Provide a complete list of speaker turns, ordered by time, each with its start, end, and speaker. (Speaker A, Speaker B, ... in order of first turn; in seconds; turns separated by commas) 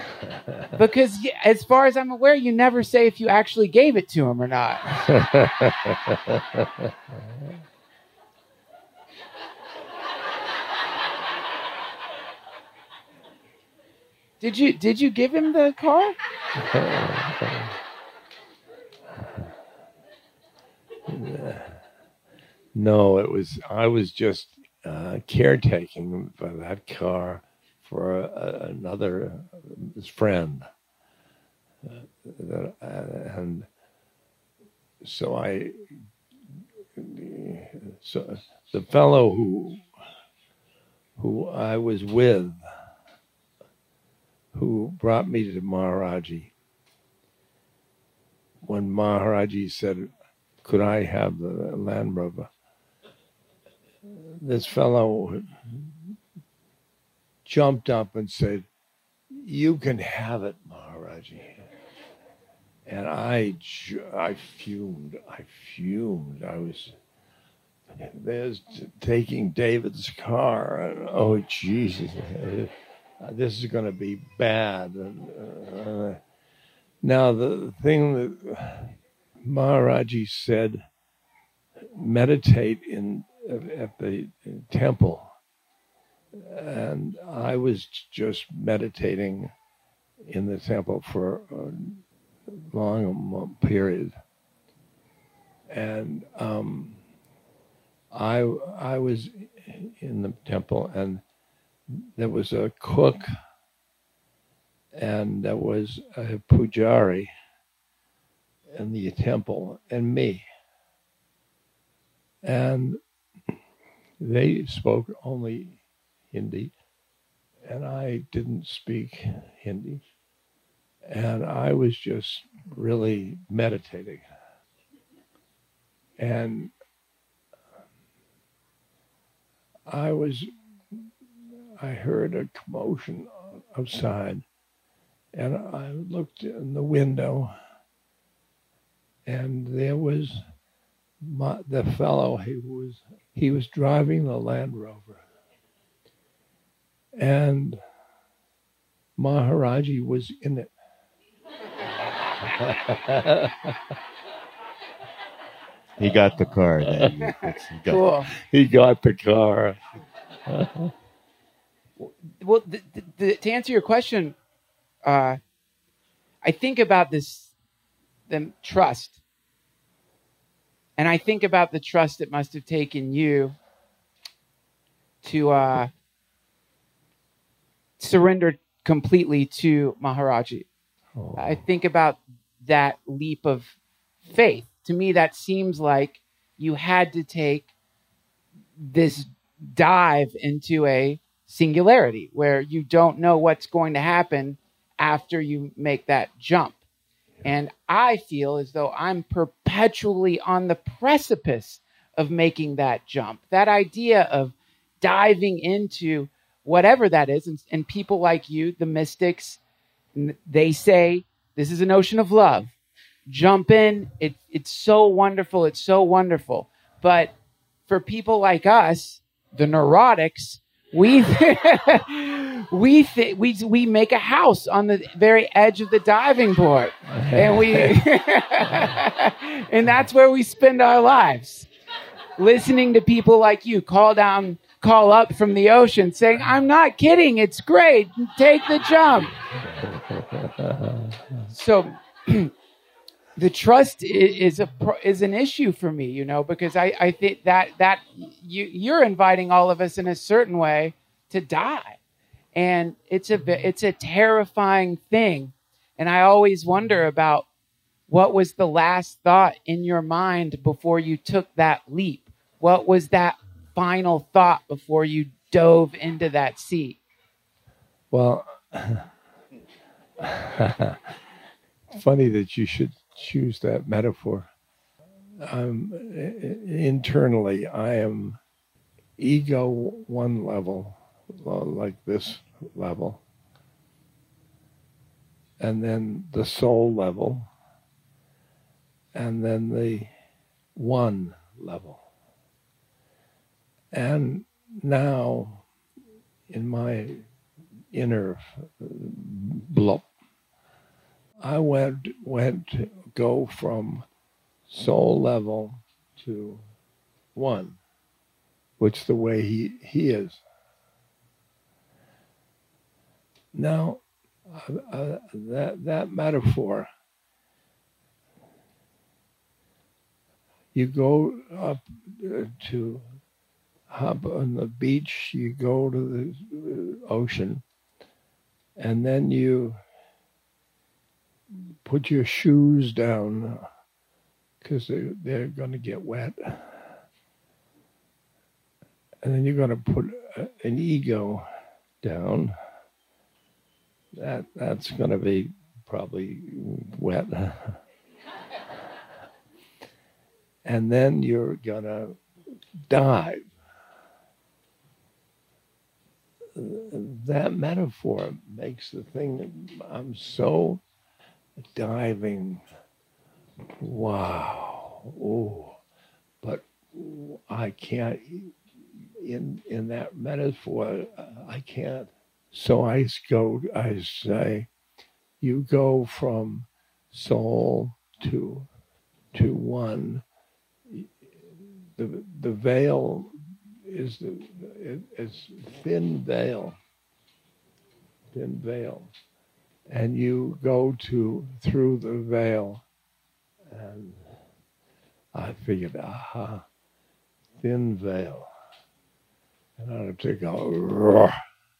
Speaker A: 0.8-5.1, Speaker B: 5.1-6.8, Speaker A: 14.4-16.1, Speaker B: 16.6-17.7, Speaker B: 21.1-21.8, Speaker B: 22.7-30.7, Speaker B: 31.8-33.7, Speaker B: 35.0-35.8, Speaker B: 37.0-39.8, Speaker B: 41.2-42.6, Speaker B: 44.5-46.5, Speaker B: 48.6-50.1, Speaker B: 50.6-52.5, Speaker B: 54.0-56.1, Speaker B: 57.4-58.7, Speaker B: 59.3-61.6, Speaker B: 62.9-67.0, Speaker B: 68.0-76.2, Speaker B: 77.0-80.8, Speaker B: 81.9-85.3, Speaker B: 86.3-89.5, Speaker B: 90.3-94.1, Speaker B: 95.7-97.0, Speaker B: 98.1-101.2, Speaker B: 101.9-103.3, Speaker B: 104.9-107.3, Speaker B: 108.7-110.4, Speaker B: 112.4-113.0, Speaker B: 114.2-115.8, Speaker B: 116.3-116.7, Speaker B: 117.7-120.0, Speaker B: 121.1-124.2, Speaker B: 126.2-126.7, Speaker B: 129.9-131.1, Speaker B: 131.8-134.4, Speaker B: 135.3-137.6, Speaker B: 139.2-140.4, Speaker B: 141.2-145.2, Speaker B: 147.2-147.8, Speaker B: 149.2-150.7, Speaker B: 152.4-153.8, Speaker C: 156.0-158.0, Speaker B: 156.8-157.1, Speaker A: 157.9-158.3, Speaker B: 158.3-159.8, Speaker B: 160.5-160.9, Speaker A: 162.0-164.3, Speaker A: 165.1-165.4, Speaker A: 166.4-167.5, Speaker A: 168.3-169.2, Speaker A: 171.0-173.5, Speaker A: 175.2-175.9, Speaker A: 178.0-180.7, Speaker B: 181.2-181.6, Speaker A: 181.4-187.7, Speaker A: 188.8-196.8, Speaker A: 197.4-209.6, Speaker A: 210.1-212.7, Speaker A: 213.2-217.3, Speaker A: 217.9-231.7, Speaker B: 227.1-228.0, Speaker A: 232.4-239.4, Speaker B: 239.7-241.3, Speaker A: 241.5-242.5, Speaker A: 243.3-252.0, Speaker A: 252.5-257.5, Speaker A: 258.1-267.0, Speaker B: 268.1-269.1, Speaker B: 270.2-271.0, Speaker B: 271.9-274.5, Speaker B: 275.4-278.4, Speaker B: 279.2-283.2, Speaker B: 285.6-287.5, Speaker B: 289.1-290.1, Speaker B: 290.8-292.0, Speaker B: 293.9-295.6, Speaker B: 296.5-297.2, Speaker B: 297.9-300.1, Speaker B: 301.4-304.1, Speaker B: 304.7-306.6, Speaker B: 307.3-307.8, Speaker B: 308.8-310.4, Speaker B: 313.5-316.9, Speaker B: 320.7-323.0, Speaker B: 323.9-327.6, Speaker B: 328.8-329.8, Speaker B: 331.7-333.6, Speaker B: 334.6-337.0, Speaker B: 339.2-341.4, Speaker B: 342.0-342.5, Speaker B: 344.1-347.8, Speaker B: 350.6-352.2, Speaker B: 352.9-353.5, Speaker B: 356.5-360.8, Speaker B: 361.6-362.6, Speaker B: 363.8-365.8, Speaker B: 366.4-368.5, Speaker B: 369.2-374.7, Speaker B: 375.4-378.7, Speaker B: 379.3-380.2, Speaker B: 381.9-386.8, Speaker B: 388.3-389.1, Speaker B: 389.9-392.8, Speaker B: 393.7-394.3, Speaker B: 395.3-396.6, Speaker B: 397.6-398.5, Speaker B: 399.8-401.3